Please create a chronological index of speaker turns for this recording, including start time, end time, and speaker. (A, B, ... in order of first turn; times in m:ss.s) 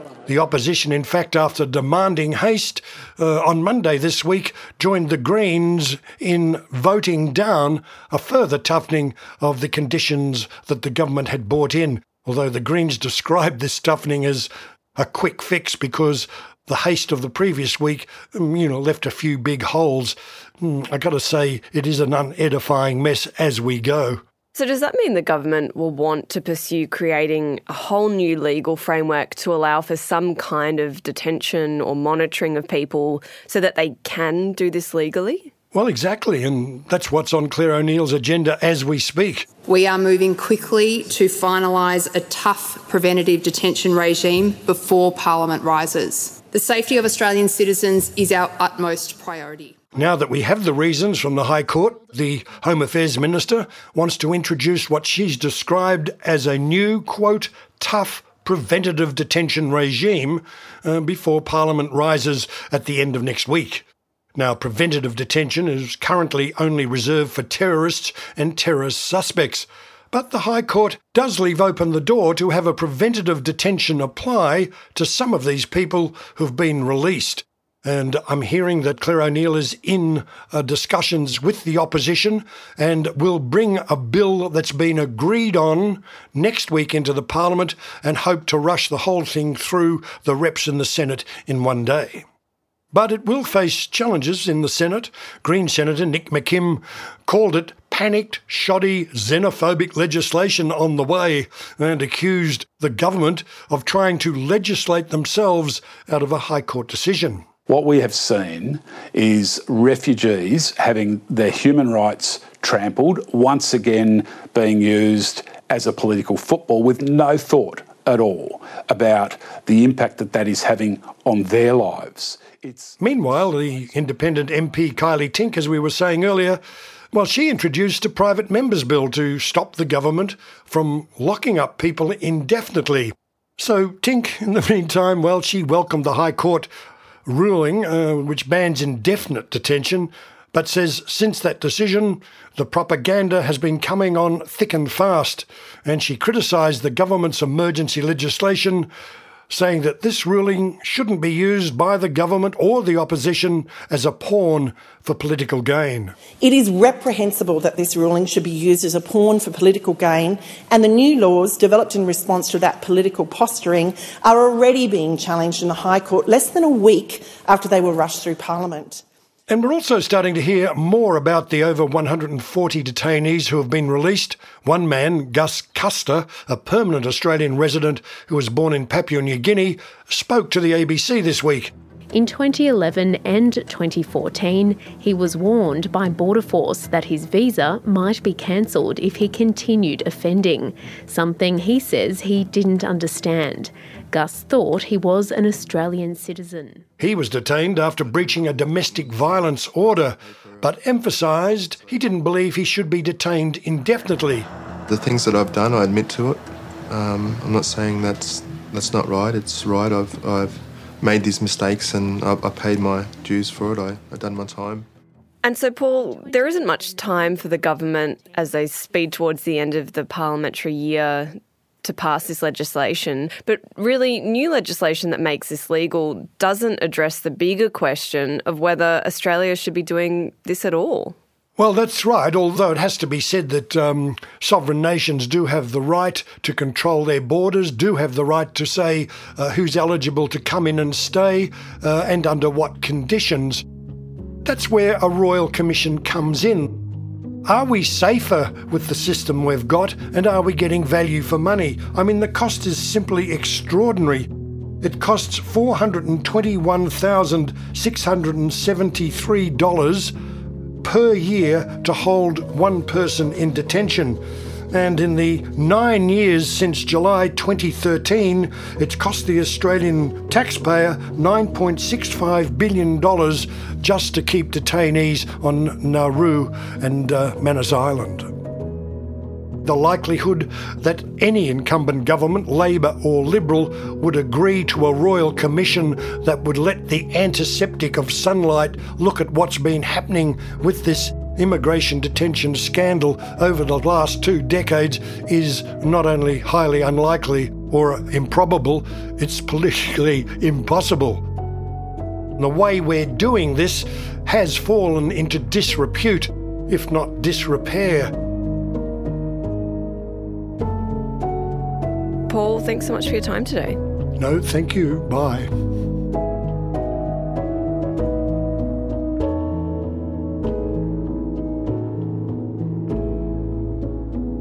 0:00.3-0:24.2 A
0:24.5-0:35.5 B
0:35.7-0:39.5 A
0:39.6-0:49.8 C
0:50.0-1:03.8 A
1:04.4-1:32.2 A
1:32.9-1:47.4 A
1:47.7-2:02.9 D
2:03.0-2:06.6 A
2:07.1-2:16.7 A
2:17.2-2:28.9 A
2:29.5-2:36.2 A
2:36.4-2:49.0 E
2:49.5-3:01.7 A
3:02.1-3:16.8 F
3:17.0-3:24.5 A
3:17.9-3:22.0 G
3:24.9-3:34.9 G
3:35.4-3:51.2 B
3:51.6-4:03.6 A
4:04.4-4:06.8 A
4:07.4-4:14.3 A
4:14.8-4:20.1 A
4:20.8-4:24.2 A
4:24.7-4:38.3 A
4:39.6-5:01.2 A
5:02.4-5:08.1 A
5:12.3-5:13.8 B
5:14.2-5:15.5 A